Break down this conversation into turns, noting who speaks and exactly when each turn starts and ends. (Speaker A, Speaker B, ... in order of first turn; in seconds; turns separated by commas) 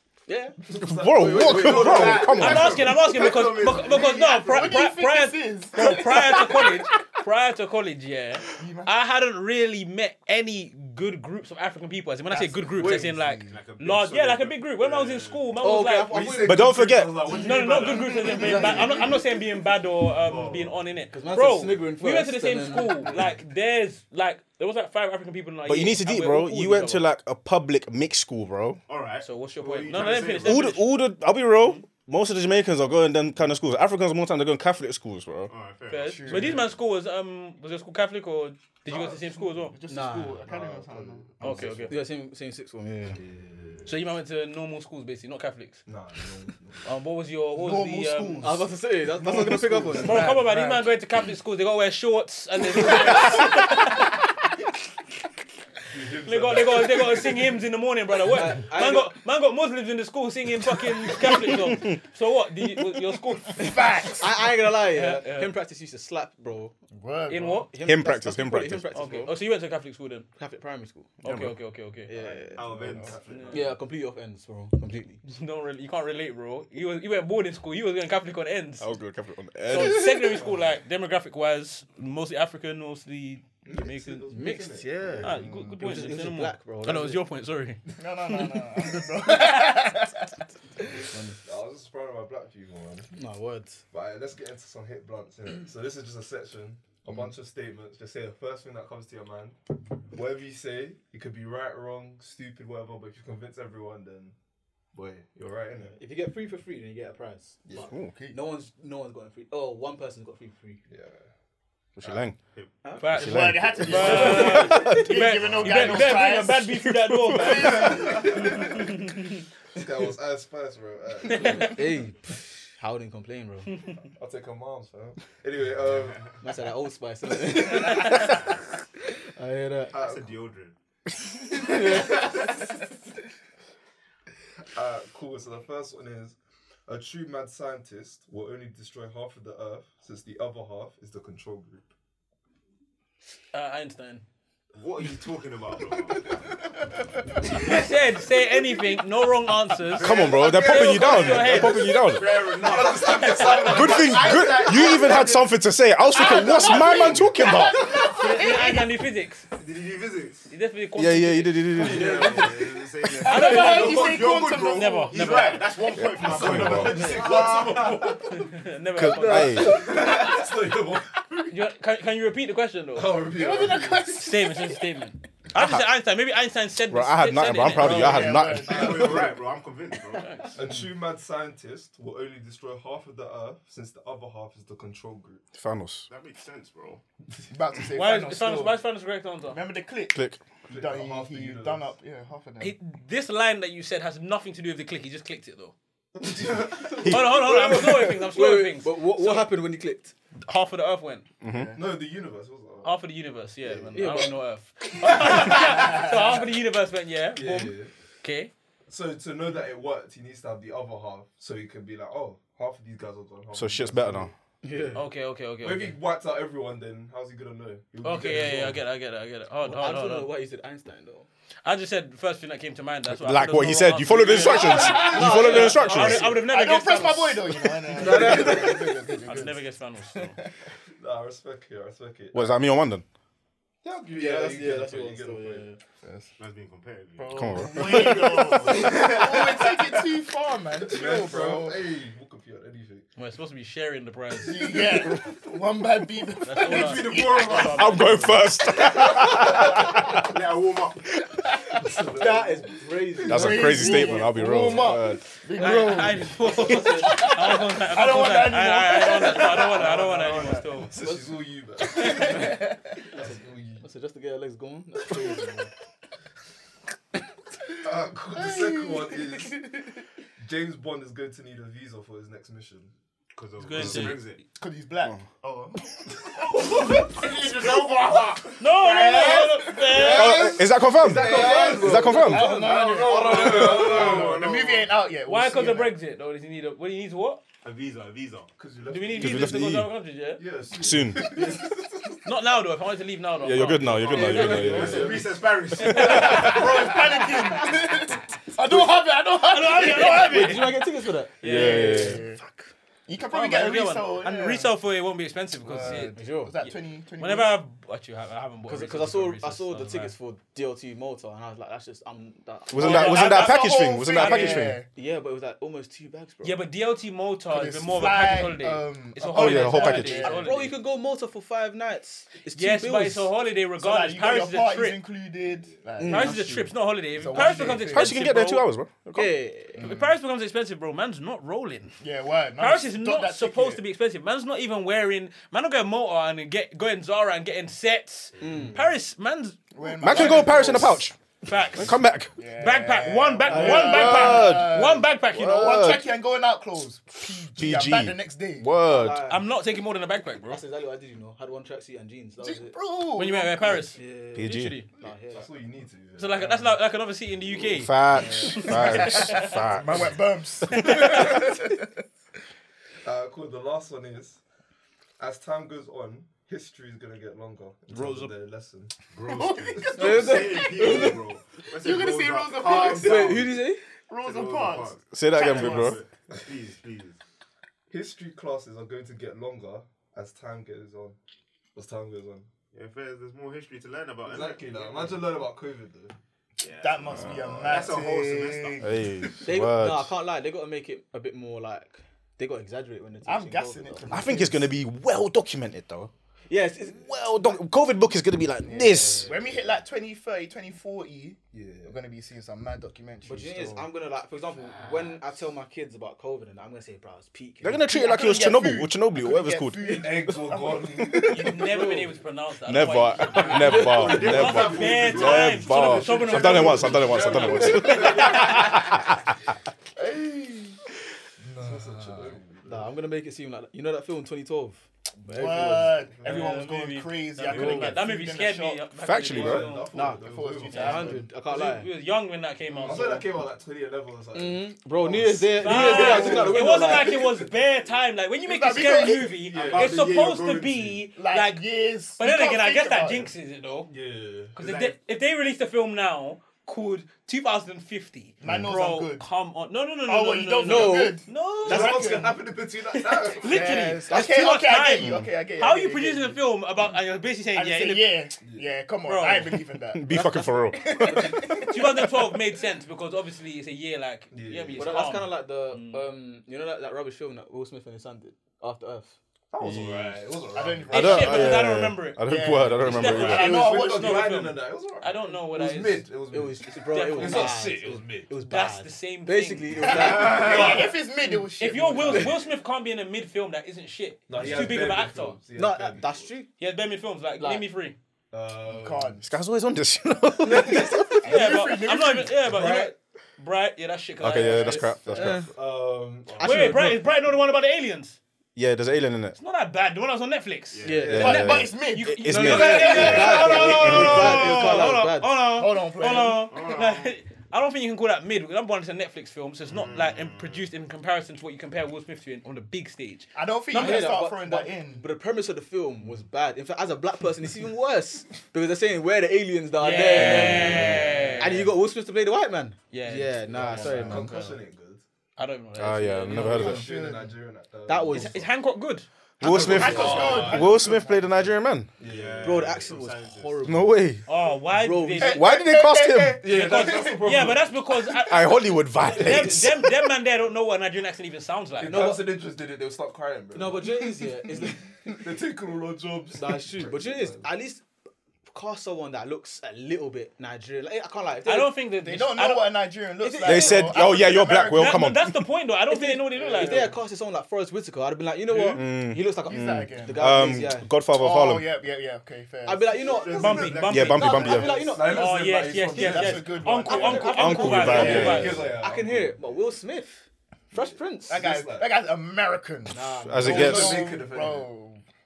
Speaker A: 0.3-2.3, Speaker B: 0.6-3.0, Speaker C: 0.8-2.8, Speaker D: 1.4-4.9, Speaker E: 2.3-16.2, Speaker F: 4.5-6.7, Speaker F: 8.5-8.9, Speaker F: 12.3-13.6, Speaker D: 13.4-15.4, Speaker A: 15.6-16.7, Speaker B: 16.0-19.2, Speaker C: 16.4-17.3, Speaker E: 17.3-27.0, Speaker F: 17.9-18.8, Speaker A: 18.3-19.1, Speaker B: 20.2-20.8, Speaker A: 21.1-23.2, Speaker C: 25.6-28.8, Speaker D: 28.9-30.8, Speaker E: 29.2-30.9, Speaker C: 30.4-35.5, Speaker D: 35.5-36.7, Speaker E: 35.9-39.8, Speaker F: 36.0-36.6, Speaker F: 38.9-41.7, Speaker A: 39.9-40.4, Speaker B: 40.4-41.9, Speaker E: 41.4-41.9, Speaker A: 41.6-43.2, Speaker B: 43.1-44.1, Speaker E: 43.8-45.8, Speaker B: 45.9-47.0, Speaker E: 46.8-48.5, Speaker F: 47.5-50.9, Speaker A: 48.4-50.4, Speaker E: 50.0-54.1, Speaker F: 52.6-53.7, Speaker B: 55.9-57.4, Speaker E: 56.2-63.7, Speaker A: 58.3-59.1, Speaker F: 63.5-64.5, Speaker A: 64.2-66.7, Speaker E: 64.9-65.5, Speaker F: 66.9-67.7, Speaker E: 67.3-67.7, Speaker A: 67.4-69.3, Speaker C: 67.8-68.9, Speaker E: 68.9-70.3, Speaker A: 70.3-71.1, Speaker E: 71.2-72.1, Speaker C: 71.2-71.6, Speaker A: 72.1-72.7, Speaker B: 72.3-73.7, Speaker D: 72.5-73.7, Speaker E: 73.3-73.6, Speaker A: 73.5-75.2, Speaker E: 75.2-78.9, Speaker C: 78.8-80.4, Speaker E: 79.7-84.6, Speaker B: 83.6-85.4, Speaker A: 84.3-87.2, Speaker E: 85.2-87.8, Speaker F: 85.3-86.0, Speaker F: 87.9-91.1, Speaker E: 89.0-89.9, Speaker A: 91.1-91.3, Speaker B: 91.4-93.1, Speaker A: 93.1-93.8, Speaker B: 93.9-99.6, Speaker B: 100.1-104.3, Speaker B: 104.9-106.0, Speaker A: 105.9-110.8, Speaker B: 107.6-107.9, Speaker F: 107.8-108.4, Speaker B: 110.9-111.2, Speaker C: 112.0-112.4, Speaker B: 112.0-112.3, Speaker A: 112.8-114.7, Speaker E: 113.0-119.3, Speaker C: 113.1-115.1, Speaker F: 113.2-118.9, Speaker D: 113.9-114.4, Speaker D: 115.6-115.9, Speaker C: 117.3-117.5, Speaker B: 117.6-119.0, Speaker B: 119.7-121.9, Speaker E: 121.3-121.7, Speaker A: 121.6-123.7, Speaker B: 124.2-126.4, Speaker A: 126.4-128.2, Speaker E: 127.7-128.3, Speaker A: 129.4-129.9, Speaker B: 129.9-130.4, Speaker D: 129.9-130.7, Speaker A: 131.6-132.3, Speaker B: 134.7-136.3, Speaker B: 136.9-141.9, Speaker E: 143.5-144.2, Speaker D: 144.7-146.5, Speaker D: 147.4-147.8, Speaker E: 147.5-152.0, Speaker D: 149.9-155.5, Speaker C: 150.0-152.4, Speaker B: 152.5-155.0, Speaker E: 153.0-154.0, Speaker C: 153.7-157.8, Speaker F: 154.3-155.3, Speaker F: 156.1-158.9, Speaker D: 156.2-157.1, Speaker D: 157.8-158.2, Speaker E: 158.1-159.4, Speaker D: 159.5-160.5, Speaker E: 160.5-161.7, Speaker C: 161.0-162.2, Speaker D: 161.8-168.2, Speaker B: 161.9-162.8, Speaker F: 162.1-162.5, Speaker F: 163.1-166.9, Speaker E: 163.2-165.7, Speaker C: 166.0-167.0, Speaker B: 166.2-168.5, Speaker E: 168.3-169.8, Speaker C: 168.9-169.8, Speaker D: 169.5-170.3, Speaker B: 169.5-171.5, Speaker E: 171.5-173.2, Speaker B: 172.9-174.3, Speaker F: 173.3-174.8, Speaker E: 174.2-178.3, Speaker C: 176.9-178.8, Speaker F: 177.8-179.3, Speaker B: 177.8-179.5, Speaker D: 178.5-180.5, Speaker E: 180.2-180.5, Speaker B: 180.5-185.4, Speaker C: 185.6-186.1, Speaker D: 186.1-187.0, Speaker F: 187.5-188.8, Speaker E: 187.9-189.6, Speaker F: 189.5-192.7, Speaker C: 190.1-190.4, Speaker B: 190.7-191.9, Speaker E: 192.6-195.7, Speaker B: 196.2-197.2, Speaker E: 197.0-199.5, Speaker A: 197.1-200.1, Speaker E: 200.4-201.2, Speaker C: 201.4-201.8, Speaker F: 201.5-201.8, Speaker B: 201.7-202.9, Speaker E: 202.8-208.5, Speaker B: 203.6-204.3, Speaker A: 203.9-204.3, Speaker B: 205.0-205.6, Speaker F: 205.3-206.3, Speaker B: 207.3-207.9, Speaker B: 208.9-214.3, Speaker C: 213.5-214.3, Speaker A: 214.6-215.0, Speaker E: 214.9-216.0, Speaker B: 215.6-218.8, Speaker E: 218.0-220.3, Speaker A: 219.6-221.3, Speaker E: 221.6-228.7, Speaker C: 223.1-226.3, Speaker F: 224.6-225.6, Speaker A: 224.7-226.2, Speaker F: 226.2-230.3, Speaker A: 227.9-228.8, Speaker E: 229.2-230.4, Speaker B: 231.0-232.6, Speaker C: 232.3-233.0, Speaker B: 233.8-235.7, Speaker A: 234.1-235.8, Speaker F: 236.0-236.3, Speaker D: 236.4-239.6, Speaker F: 237.2-241.8, Speaker C: 237.3-238.3, Speaker B: 238.4-239.1, Speaker B: 240.8-243.1, Speaker E: 243.2-244.9, Speaker F: 244.4-247.8, Speaker E: 246.4-248.5, Speaker D: 246.6-248.1, Speaker C: 247.6-250.1, Speaker D: 249.5-251.2, Speaker B: 251.7-252.8, Speaker A: 252.2-254.1, Speaker F: 253.2-260.7, Speaker C: 253.2-255.3, Speaker E: 255.5-260.9, Speaker A: 256.4-257.3, Speaker B: 260.2-263.9, Speaker A: 261.0-261.3, Speaker F: 261.8-262.9, Speaker A: 263.1-265.7, Speaker B: 267.8-269.6, Speaker F: 268.3-269.7, Speaker B: 270.4-272.9, Speaker D: 273.3-274.4, Speaker E: 273.6-274.2, Speaker C: 273.8-274.1, Speaker F: 274.6-277.8, Speaker B: 276.4-278.1, Speaker D: 277.5-278.2, Speaker E: 278.6-280.5, Speaker F: 278.7-280.5, Speaker B: 279.9-280.4, Speaker C: 280.1-282.5, Speaker B: 281.0-284.5, Speaker A: 281.0-284.2, Speaker D: 281.3-284.9, Speaker F: 282.3-285.9, Speaker E: 285.2-287.4, Speaker D: 287.6-288.5, Speaker B: 288.6-289.7, Speaker E: 288.9-290.4, Speaker C: 289.2-289.9, Speaker B: 290.4-292.3, Speaker C: 290.8-291.3, Speaker E: 292.2-295.1, Speaker C: 293.4-295.1, Speaker D: 294.2-297.4, Speaker A: 294.2-295.2, Speaker B: 294.2-296.9, Speaker E: 295.7-296.7, Speaker F: 295.9-300.8, Speaker E: 299.4-300.8, Speaker A: 300.0-302.6, Speaker E: 301.4-302.1, Speaker C: 301.4-302.2, Speaker F: 301.4-302.4, Speaker F: 303.1-304.7, Speaker E: 303.3-310.1, Speaker F: 305.6-307.5, Speaker A: 305.8-306.5, Speaker A: 308.6-313.2, Speaker C: 312.7-314.8, Speaker E: 312.8-314.7, Speaker F: 312.9-314.9, Speaker A: 314.9-316.6, Speaker E: 316.4-320.7, Speaker F: 317.5-320.7, Speaker C: 319.3-320.3, Speaker A: 320.1-323.3, Speaker E: 322.5-325.0, Speaker F: 323.8-328.2, Speaker A: 326.0-326.6, Speaker E: 326.1-328.6, Speaker C: 327.9-329.3, Speaker A: 329.1-329.9, Speaker F: 329.8-330.1, Speaker E: 329.8-332.0, Speaker F: 332.0-333.8, Speaker E: 332.6-340.6, Speaker A: 338.4-338.9, Speaker F: 339.7-341.1, Speaker C: 340.0-341.1, Speaker E: 341.4-342.0, Speaker C: 341.7-342.3, Speaker F: 342.4-348.7, Speaker E: 342.5-345.8, Speaker A: 343.5-344.1, Speaker C: 343.7-346.1, Speaker C: 347.3-349.2, Speaker A: 348.9-349.5, Speaker E: 349.3-350.6, Speaker A: 350.5-352.8, Speaker F: 352.4-353.9, Speaker E: 353.1-354.9, Speaker A: 353.9-355.5, Speaker C: 354.3-354.8, Speaker B: 355.3-356.8, Speaker E: 356.2-359.6, Speaker C: 357.6-360.1, Speaker F: 358.1-362.0, Speaker E: 360.7-361.4, Speaker B: 363.0-364.4, Speaker B: 365.2-368.9, Speaker E: 367.9-368.3, Speaker D: 369.1-373.6, Speaker F: 369.2-373.4, Speaker A: 369.9-371.2, Speaker A: 372.9-373.8, Speaker F: 374.1-376.0, Speaker D: 374.2-377.2, Speaker C: 375.1-376.0, Speaker B: 377.9-381.2, Speaker B: 381.7-382.5, Speaker D: 382.7-385.3, Speaker B: 384.2-386.1, Speaker D: 386.6-388.9, Speaker F: 386.8-389.3, Speaker B: 387.1-387.9, Speaker C: 388.8-390.1, Speaker A: 389.4-394.3, Speaker F: 393.2-394.7, Speaker C: 394.1-396.1, Speaker A: 396.5-397.6, Speaker C: 396.9-399.2, Speaker F: 398.6-403.6, Speaker B: 401.5-402.0, Speaker A: 403.2-407.9, Speaker B: 403.5-403.8, Speaker C: 407.6-410.1, Speaker F: 407.8-411.6, Speaker B: 409.8-411.5, Speaker E: 411.3-418.5, Speaker A: 411.5-412.1, Speaker C: 412.6-419.1, Speaker A: 413.5-414.2, Speaker D: 413.5-415.7, Speaker B: 414.5-418.7, Speaker D: 417.6-418.1, Speaker F: 418.2-418.5, Speaker F: 420.0-420.8, Speaker F: 421.4-422.4, Speaker B: 421.6-422.9, Speaker A: 422.6-425.9, Speaker F: 425.3-428.8, Speaker B: 425.6-426.5, Speaker E: 426.2-429.9, Speaker D: 427.5-428.0, Speaker C: 429.0-429.7, Speaker B: 429.3-431.3, Speaker A: 429.9-431.9, Speaker F: 430.1-431.2, Speaker E: 431.5-433.3, Speaker B: 432.8-437.9, Speaker A: 434.3-437.1, Speaker E: 435.6-441.6, Speaker F: 435.8-437.1, Speaker F: 438.4-439.4, Speaker B: 439.4-440.3, Speaker D: 439.5-441.0, Speaker F: 441.1-443.3, Speaker E: 442.2-443.9, Speaker B: 443.9-444.6, Speaker E: 444.5-452.1, Speaker D: 444.6-445.0, Speaker F: 448.4-449.2, Speaker C: 448.4-448.7, Speaker F: 450.1-452.4, Speaker A: 450.6-451.9, Speaker B: 451.6-453.8, Speaker E: 452.9-458.1, Speaker F: 453.4-456.4, Speaker C: 455.0-455.3, Speaker F: 457.5-462.3, Speaker B: 458.4-458.7, Speaker E: 459.0-459.6, Speaker C: 459.9-461.2, Speaker A: 461.1-461.4, Speaker E: 461.5-466.0, Speaker B: 464.3-465.2, Speaker A: 464.7-469.2, Speaker B: 469.5-471.5, Speaker C: 469.6-470.2, Speaker F: 470.5-471.6, Speaker E: 470.9-472.3, Speaker C: 470.9-473.4, Speaker F: 472.2-474.3, Speaker E: 472.8-476.1, Speaker B: 472.9-478.3, Speaker A: 476.3-480.8, Speaker E: 476.9-477.7, Speaker E: 478.4-480.9, Speaker F: 479.8-482.4, Speaker B: 480.1-480.8, Speaker E: 481.6-485.4, Speaker B: 482.0-482.4, Speaker B: 484.3-486.4, Speaker A: 485.5-486.5, Speaker E: 486.6-487.9, Speaker A: 487.4-487.6, Speaker B: 488.3-489.2, Speaker F: 488.7-489.3, Speaker C: 489.2-491.4, Speaker A: 490.4-490.8, Speaker F: 490.5-492.4, Speaker E: 491.2-494.9, Speaker B: 492.4-492.9, Speaker C: 494.2-495.4, Speaker B: 494.3-496.8, Speaker A: 495.1-495.5, Speaker A: 496.4-497.0, Speaker E: 496.4-498.2, Speaker C: 498.5-499.4, Speaker E: 499.4-514.1, Speaker D: 500.7-501.2, Speaker A: 500.8-501.5, Speaker B: 501.0-501.4, Speaker C: 501.0-504.3, Speaker F: 501.2-504.8, Speaker A: 502.3-505.4, Speaker B: 502.6-504.7, Speaker F: 505.4-506.4, Speaker D: 506.4-507.1, Speaker D: 509.7-510.7, Speaker F: 513.3-515.1, Speaker A: 513.7-524.5, Speaker E: 519.8-521.7, Speaker C: 520.1-521.0, Speaker F: 520.7-521.4, Speaker E: 522.9-523.4, Speaker B: 523.5-525.0, Speaker F: 523.8-524.5, Speaker E: 525.4-526.5, Speaker C: 525.8-526.9, Speaker B: 526.3-528.5, Speaker F: 526.4-527.3, Speaker A: 527.9-528.4, Speaker E: 528.1-529.0, Speaker C: 529.4-531.9, Speaker B: 529.4-531.0, Speaker F: 529.4-531.3, Speaker A: 529.7-530.4, Speaker B: 532.0-532.9, Speaker D: 532.0-533.7, Speaker A: 532.4-534.0, Speaker C: 533.6-534.2, Speaker E: 534.3-535.5, Speaker A: 534.7-535.4, Speaker C: 535.2-536.4, Speaker F: 535.4-537.3, Speaker B: 536.4-537.8, Speaker E: 536.4-542.1, Speaker C: 538.1-539.8, Speaker B: 539.2-539.5, Speaker B: 541.8-547.5, Speaker A: 541.8-542.3, Speaker A: 543.5-544.8, Speaker A: 546.4-547.8, Speaker A: 548.5-551.7, Speaker E: 551.4-552.8, Speaker F: 552.0-555.1, Speaker A: 553.2-554.1, Speaker C: 553.4-555.4, Speaker E: 554.7-556.9, Speaker A: 555.9-560.9, Speaker F: 556.3-556.9, Speaker B: 558.5-558.8, Speaker C: 558.7-559.2, Speaker F: 559.4-560.4, Speaker C: 560.1-561.7, Speaker F: 561.1-563.0, Speaker A: 562.6-565.3, Speaker D: 563.0-564.9, Speaker B: 563.3-563.9, Speaker E: 563.3-568.6, Speaker C: 563.9-564.7, Speaker B: 564.6-566.7, Speaker A: 565.9-571.4, Speaker F: 565.9-568.5, Speaker C: 567.3-568.5, Speaker B: 567.7-569.4, Speaker B: 570.8-571.9, Speaker F: 571.3-575.0, Speaker A: 572.9-574.0, Speaker C: 573.2-574.0, Speaker B: 573.4-574.7